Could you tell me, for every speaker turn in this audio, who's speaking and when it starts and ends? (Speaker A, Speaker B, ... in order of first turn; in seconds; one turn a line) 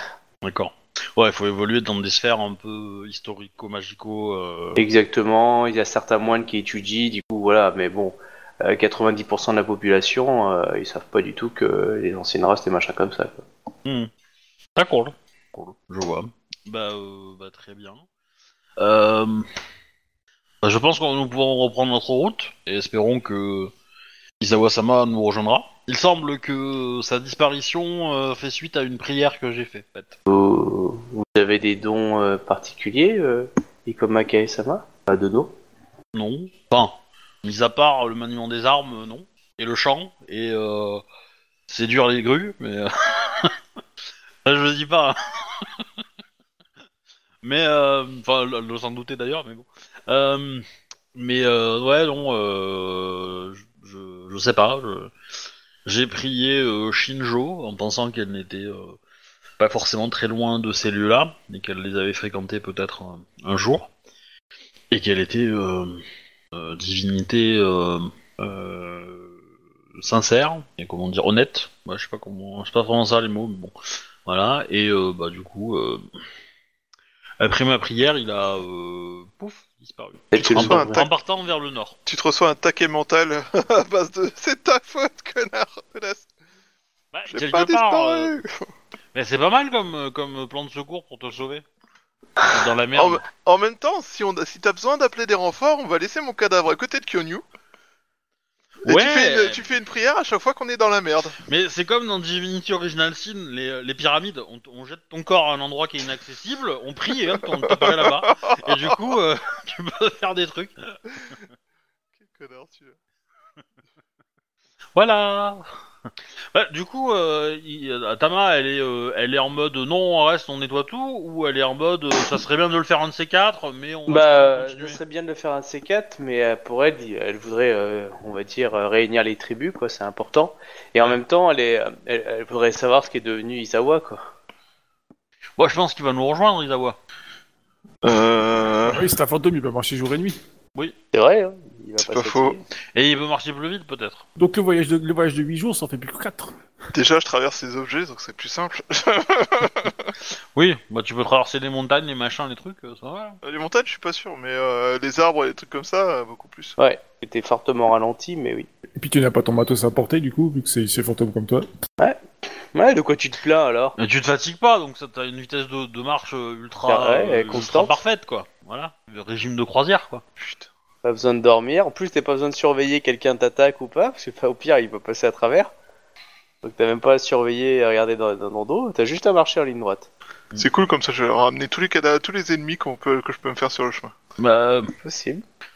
Speaker A: 0.4-4.8
Speaker B: 4.8-13.4
Speaker A: 13.8-14.1
Speaker A: 14.8-18.0
Speaker A: 18.8-19.5
Speaker A: 20.6-23.7
Speaker A: 24.4-30.2
Speaker B: 30.3-35.5
Speaker A: 36.1-41.0
Speaker A: 41.7-43.5
Speaker A: 44.4-45.8
Speaker A: 47.4-55.1
Speaker A: 55.8-59.0
Speaker A: 59.6-63.9
Speaker A: 64.9-69.3
Speaker A: 70.0-76.0
Speaker A: 77.4-82.0
Speaker B: 80.3-80.9
Speaker C: 80.4-81.1
Speaker C: 82.0-86.3
Speaker A: 87.1-88.3
Speaker C: 87.3-88.5
Speaker A: 89.1-91.6
Speaker A: 92.4-93.2
Speaker C: 92.9-97.4
Speaker A: 98.8-99.7
Speaker C: 98.8-101.4
Speaker A: 101.5-110.7
Speaker C: 107.7-108.7
Speaker C: 112.2-113.0
Speaker A: 115.0-115.6
Speaker A: 116.5-125.0
Speaker B: 124.1-134.2
Speaker A: 135.6-137.0
Speaker C: 138.0-139.0
Speaker D: 138.8-140.4
Speaker B: 141.1-142.6
Speaker C: 142.0-142.6
Speaker A: 142.9-144.2
Speaker D: 144.4-146.6
Speaker C: 146.9-150.1
Speaker A: 150.5-153.4
Speaker C: 153.4-156.8
Speaker B: 156.8-158.7
Speaker D: 158.9-161.7
Speaker B: 162.7-163.9
Speaker A: 164.0-170.2
Speaker B: 166.9-168.0
Speaker C: 170.4-170.7
Speaker B: 171.0-175.7
Speaker B: 176.6-180.1
Speaker C: 180.6-184.1
Speaker A: 184.4-184.9
Speaker B: 185.0-185.4